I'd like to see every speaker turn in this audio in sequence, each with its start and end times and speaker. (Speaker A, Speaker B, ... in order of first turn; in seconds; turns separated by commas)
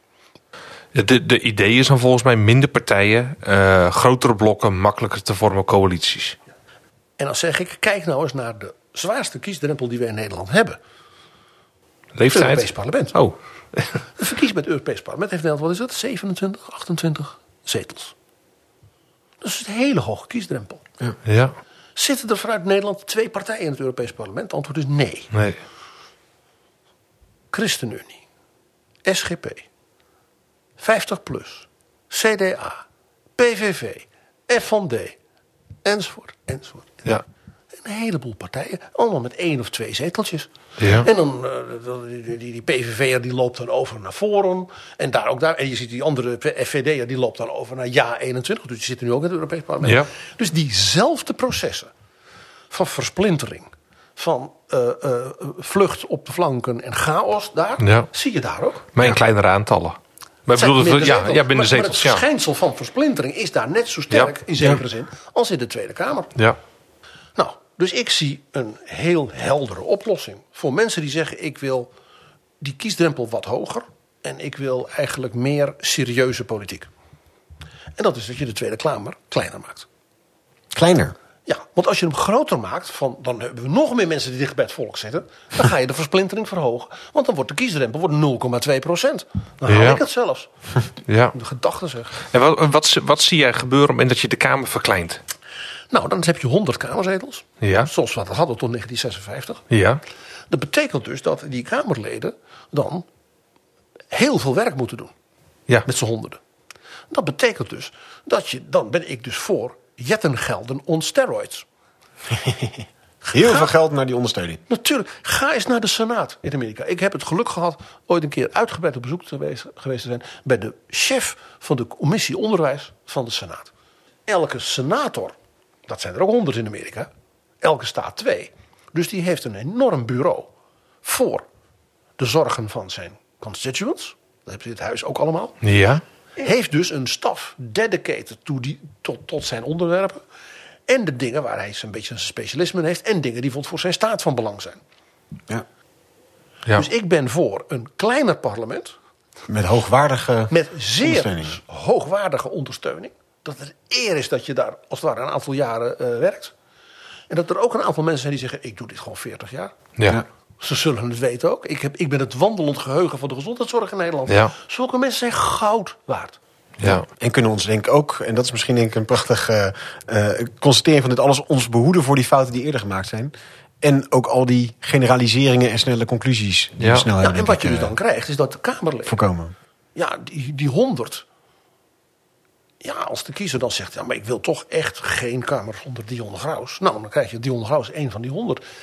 Speaker A: 0.9-6.4, Speaker B: 7.2-10.8, Speaker A: 12.2-14.0, Speaker B: 12.3-13.2, Speaker B: 14.2-18.1, Speaker B: 19.4-20.8, Speaker A: 21.2-21.6, Speaker B: 21.9-25.3, Speaker A: 25.3-25.6, Speaker B: 27.5-28.2, Speaker B: 29.1-29.6, Speaker B: 30.8-32.8, Speaker B: 33.4-35.2, Speaker B: 35.8-37.2, Speaker B: 37.8-51.9, Speaker A: 40.8-41.1, Speaker B: 52.7-58.9, Speaker A: 57.8-58.1, Speaker A: 58.9-62.2, Speaker B: 60.5-66.3, Speaker B: 67.4-71.9, Speaker B: 72.6-76.9, Speaker B: 78.0-79.9, Speaker C: 80.7-81.1, Speaker B: 81.5-90.5, Speaker A: 89.7-90.0, Speaker A: 91.1-91.3, Speaker B: 91.3-92.2, Speaker A: 92.2-95.2, Speaker B: 95.9-99.6, Speaker A: 97.6-97.9, Speaker A: 99.7-100.0, Speaker B: 100.5-103.0, Speaker B: 104.1-105.1, Speaker B: 105.9-106.4, Speaker B: 107.1-111.7, Speaker C: 112.3-114.6, Speaker B: 113.2-113.7, Speaker B: 114.7-123.7, Speaker B: 124.3-125.3, Speaker B: 125.9-127.1, Speaker B: 127.6-130.5, Speaker B: 131.0-131.4, Speaker B: 132.2-135.6, Speaker A: 135.6-136.0, Speaker B: 136.4-140.2, Speaker B: 140.9-144.8, Speaker B: 146.7-148.9, Speaker C: 149.5-151.6, Speaker B: 150.5-156.5, Speaker B: 157.3-159.7, Speaker B: 160.6-166.4, Speaker A: 164.3-164.5, Speaker A: 166.8-167.1, Speaker C: 166.8-177.9, Speaker A: 176.8-177.1, Speaker B: 177.2-179.2, Speaker C: 179.1-179.6, Speaker B: 179.9-181.2, Speaker B: 182.8-188.6